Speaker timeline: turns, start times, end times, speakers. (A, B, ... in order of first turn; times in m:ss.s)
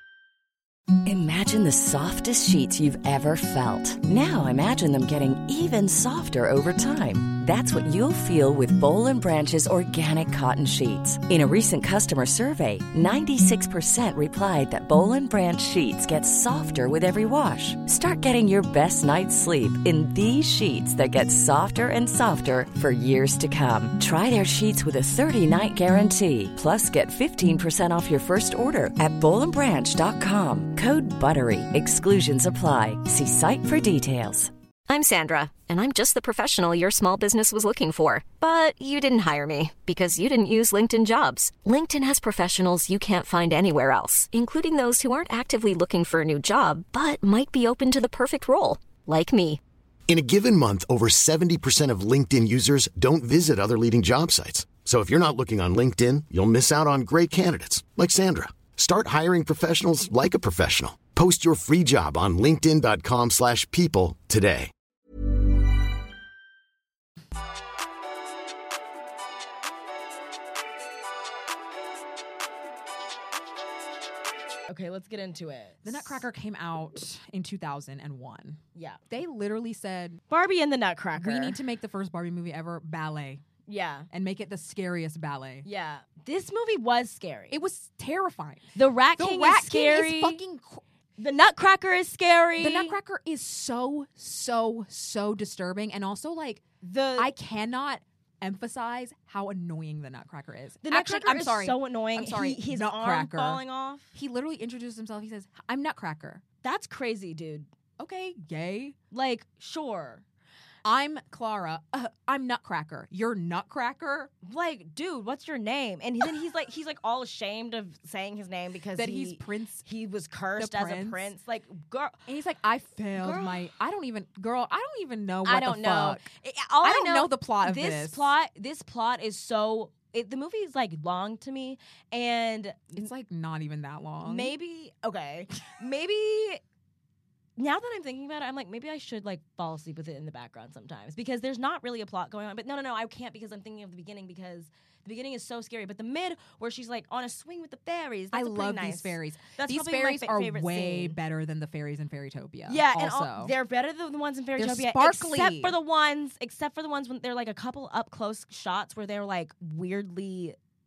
0:01.0-0:34.5 A
0:34.9-0:49.6 B
0:50.1-1:04.7 C
1:14.7-1:16.2 D
1:15.8-1:20.2 E
1:18.8-1:19.0 D
1:20.3-1:21.6 D
1:21.2-1:23.4 E
1:23.7-1:24.1 D
1:24.1-1:25.7 E
1:25.6-1:27.6 D
1:27.5-1:30.8 E
1:28.8-1:30.4 D
1:31.2-1:33.0 D
1:32.6-1:36.7 E
1:36.8-1:37.3 D
1:37.2-1:43.6 E
1:40.8-1:44.1 D
1:44.1-1:46.4 E
1:46.6-1:47.7 D
1:48.0-1:49.0 E
1:49.1-1:50.2 D
1:50.8-1:54.3 E
1:54.4-2:02.2 D
1:59.0-1:59.9 E
2:00.6-2:01.3 E
2:02.3-2:06.2 E
2:03.2-2:03.7 D
2:05.4-2:13.1 D
2:06.8-2:08.3 E
2:13.0-2:14.5 E
2:14.2-2:16.6 D
2:17.6-2:31.2 D
2:28.3-2:33.6 E
2:32.7-2:40.6 D
2:34.6-2:35.8 E